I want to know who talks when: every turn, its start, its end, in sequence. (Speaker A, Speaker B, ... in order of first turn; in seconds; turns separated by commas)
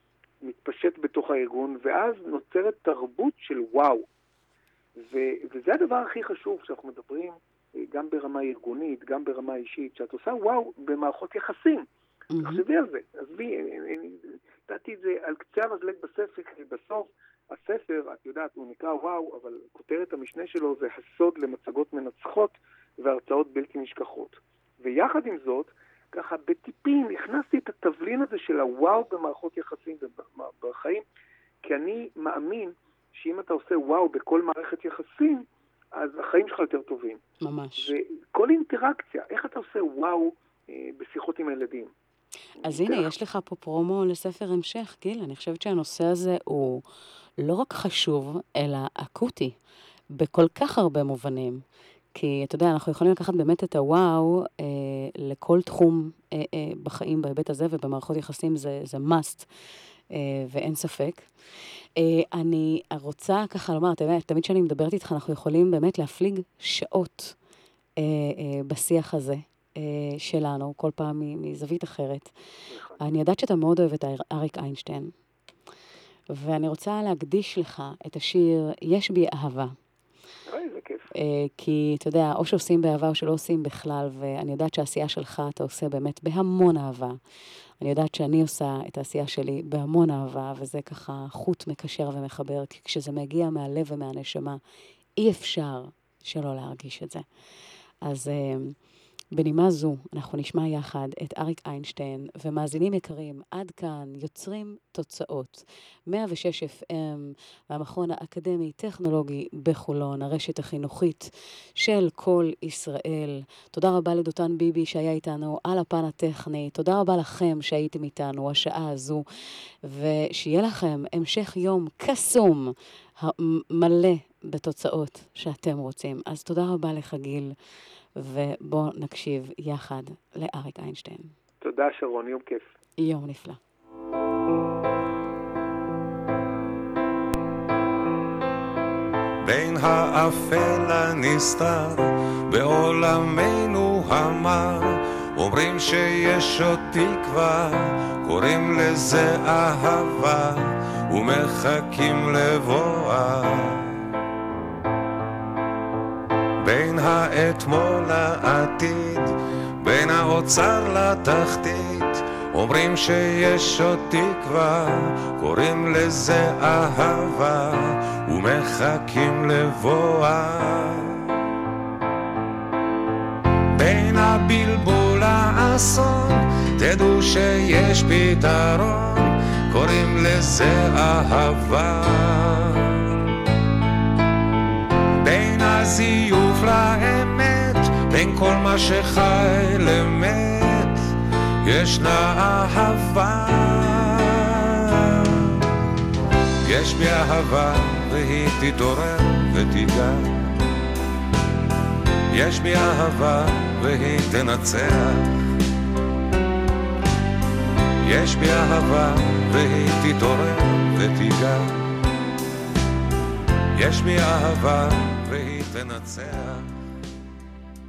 Speaker A: 0.4-4.0, Speaker A: 5.0-11.9, Speaker B: 12.3-12.6, Speaker A: 12.4-31.0, Speaker A: 31.6-37.2, Speaker B: 37.4-37.9, Speaker A: 37.8-41.9, Speaker B: 42.6-46.8, Speaker A: 42.6-43.1, Speaker B: 47.4-49.6, Speaker B: 50.1-51.6, Speaker B: 52.1-59.5, Speaker B: 60.1-61.3, Speaker B: 62.0-67.3, Speaker B: 68.0-72.3, Speaker A: 72.7-73.0, Speaker B: 73.0-75.1, Speaker B: 76.3-79.7, Speaker A: 80.5-81.1, Speaker B: 81.1-87.2, Speaker B: 87.8-94.6, Speaker B: 95.2-97.2, Speaker B: 98.0-98.8, Speaker B: 99.3-119.2, Speaker B: 119.9-127.5, Speaker B: 128.2-131.3, Speaker A: 131.6-132.7, Speaker B: 133.0-133.6, Speaker C: 139.4-154.0, Speaker C: 156.6-171.3, Speaker C: 173.8-183.0, Speaker C: 185.2-191.1, Speaker C: 191.6-195.4, Speaker C: 196.7-200.5, Speaker C: 202.3-205.5, Speaker C: 208.0-211.9, Speaker C: 213.8-216.7